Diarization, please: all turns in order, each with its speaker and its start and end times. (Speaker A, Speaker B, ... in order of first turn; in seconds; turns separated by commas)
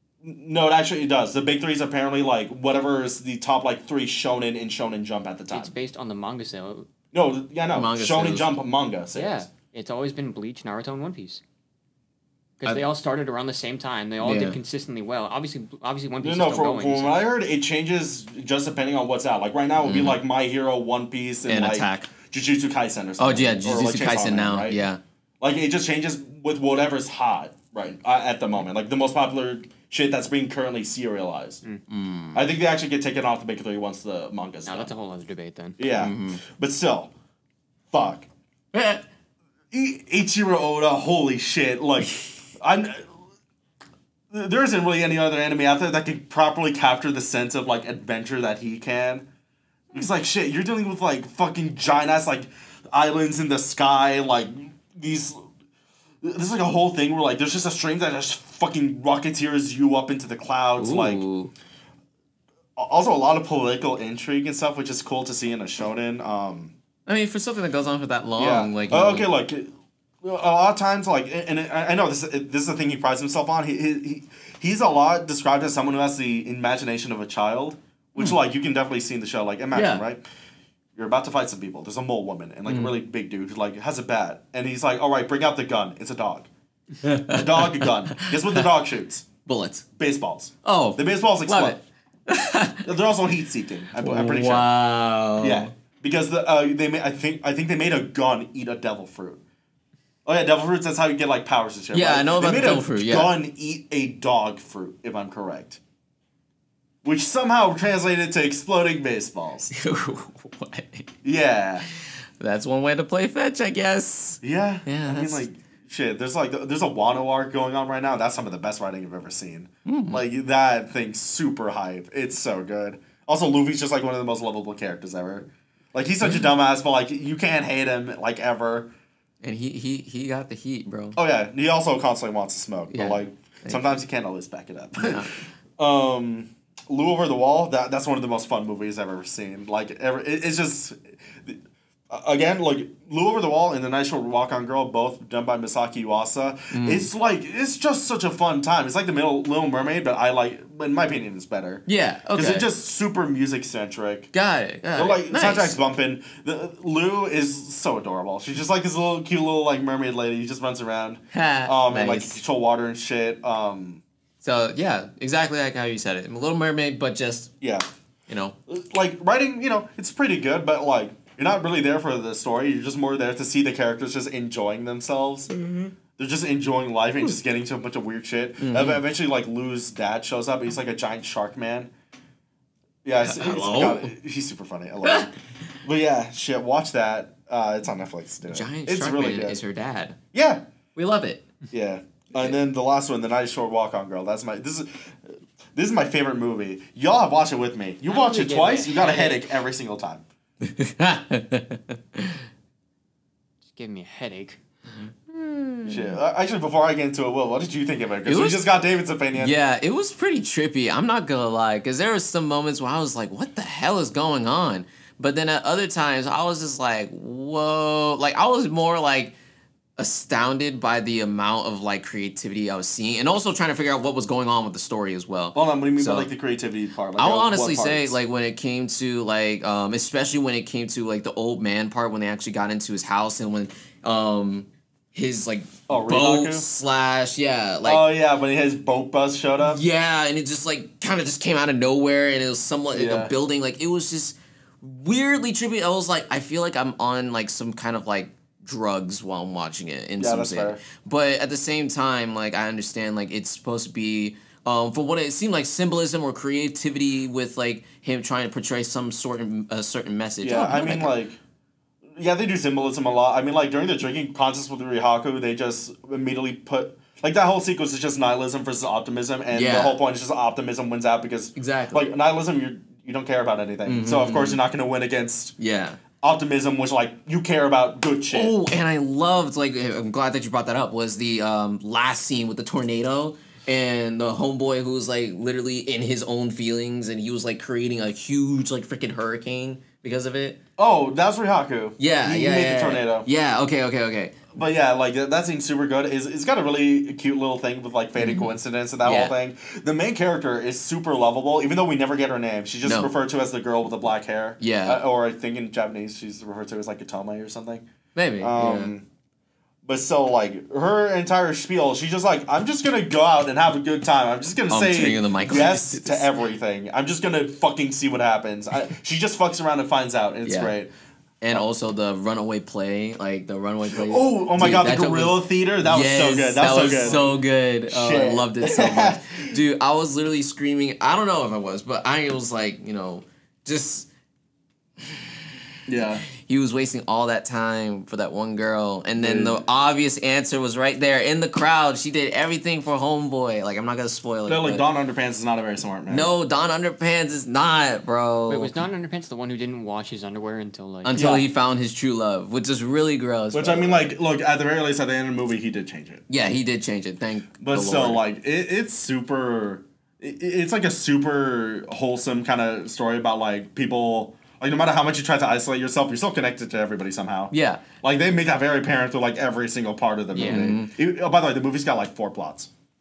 Speaker A: 0.2-5.7, Speaker B: 5.5-6.9, Speaker A: 7.1-9.4, Speaker C: 7.7-8.5, Speaker B: 9.1-11.4, Speaker B: 12.6-17.2, Speaker C: 14.2-14.6, Speaker A: 16.2-24.8, Speaker C: 19.8-20.2, Speaker C: 21.5-22.1, Speaker C: 23.2-25.0, Speaker A: 25.4-31.6, Speaker C: 31.9-32.4, Speaker A: 32.3-34.9, Speaker B: 34.6-35.8, Speaker A: 35.8-37.1, Speaker C: 36.0-36.4, Speaker A: 37.9-38.3, Speaker C: 38.7-39.0, Speaker A: 39.7-43.1, Speaker A: 44.3-49.2, Speaker A: 49.9-55.4, Speaker A: 56.2-61.2, Speaker C: 60.8-61.5, Speaker A: 62.8-66.7, Speaker C: 67.1-69.3, Speaker A: 68.4-69.7, Speaker A: 70.2-80.2, Speaker C: 79.7-80.0, Speaker A: 81.0-86.5, Speaker C: 82.7-83.0, Speaker C: 87.0-88.7, Speaker A: 87.3-89.3, Speaker C: 89.5-89.8, Speaker A: 90.0-91.8, Speaker C: 90.6-92.9, Speaker A: 92.8-94.7, Speaker C: 93.9-95.7, Speaker A: 95.4-99.4, Speaker A: 100.2-105.8, Speaker C: 101.9-103.3, Speaker A: 107.0-109.7, Speaker C: 109.7-111.1, Speaker A: 111.2-111.9, Speaker C: 112.4-115.4, Speaker A: 114.4-128.9, Speaker C: 119.8-120.2, Speaker C: 126.2-126.5, Speaker C: 129.4-131.2, Speaker A: 131.2-141.6, Speaker C: 132.9-133.9, Speaker C: 135.0-135.3, Speaker A: 142.1-154.3, Speaker C: 146.7-147.1, Speaker C: 151.9-152.7, Speaker C: 154.3-155.8, Speaker A: 154.9-164.0, Speaker C: 161.3-162.4, Speaker C: 164.4-167.5, Speaker C: 168.3-168.6, Speaker A: 168.7-175.5, Speaker C: 175.5-175.9, Speaker A: 176.2-181.9, Speaker C: 178.6-179.0, Speaker A: 183.0-189.6, Speaker C: 183.2-184.1, Speaker C: 185.0-185.3, Speaker C: 188.5-190.2, Speaker A: 190.3-190.6, Speaker C: 190.9-191.5, Speaker A: 191.7-200.2, Speaker B: 198.1-199.5, Speaker C: 200.6-202.4, Speaker B: 203.7-204.6, Speaker C: 204.9-206.2, Speaker A: 205.9-209.6, Speaker C: 208.2-208.6, Speaker C: 209.3-219.3, Speaker C: 220.0-226.3, Speaker A: 225.5-228.2, Speaker C: 227.2-238.1, Speaker A: 235.9-236.7, Speaker A: 237.8-239.8, Speaker C: 239.6-261.2, Speaker A: 242.9-243.3, Speaker A: 250.2-250.8, Speaker A: 260.4-261.4, Speaker A: 262.2-275.6, Speaker C: 269.5-270.0, Speaker C: 271.6-272.1, Speaker C: 273.9-274.6, Speaker C: 275.6-276.0, Speaker A: 276.2-278.6, Speaker C: 278.3-290.6, Speaker A: 290.8-293.3, Speaker C: 292.0-294.5, Speaker A: 294.5-307.8, Speaker C: 298.2-299.3, Speaker C: 302.8-303.1, Speaker C: 304.6-305.0, Speaker C: 308.1-308.9, Speaker A: 308.4-309.0, Speaker A: 309.8-320.9, Speaker C: 314.7-316.3, Speaker C: 320.4-320.8, Speaker C: 321.4-334.1, Speaker A: 323.9-329.6, Speaker C: 335.0-335.3, Speaker A: 335.9-336.3, Speaker C: 336.3-344.8, Speaker A: 339.2-339.6, Speaker A: 344.4-346.3, Speaker C: 346.1-348.7, Speaker B: 348.5-351.4, Speaker C: 351.0-354.1, Speaker A: 351.1-351.4, Speaker A: 353.5-356.2, Speaker C: 356.3-358.2, Speaker A: 357.6-372.7, Speaker C: 367.5-367.9, Speaker B: 370.3-370.7, Speaker C: 370.4-370.9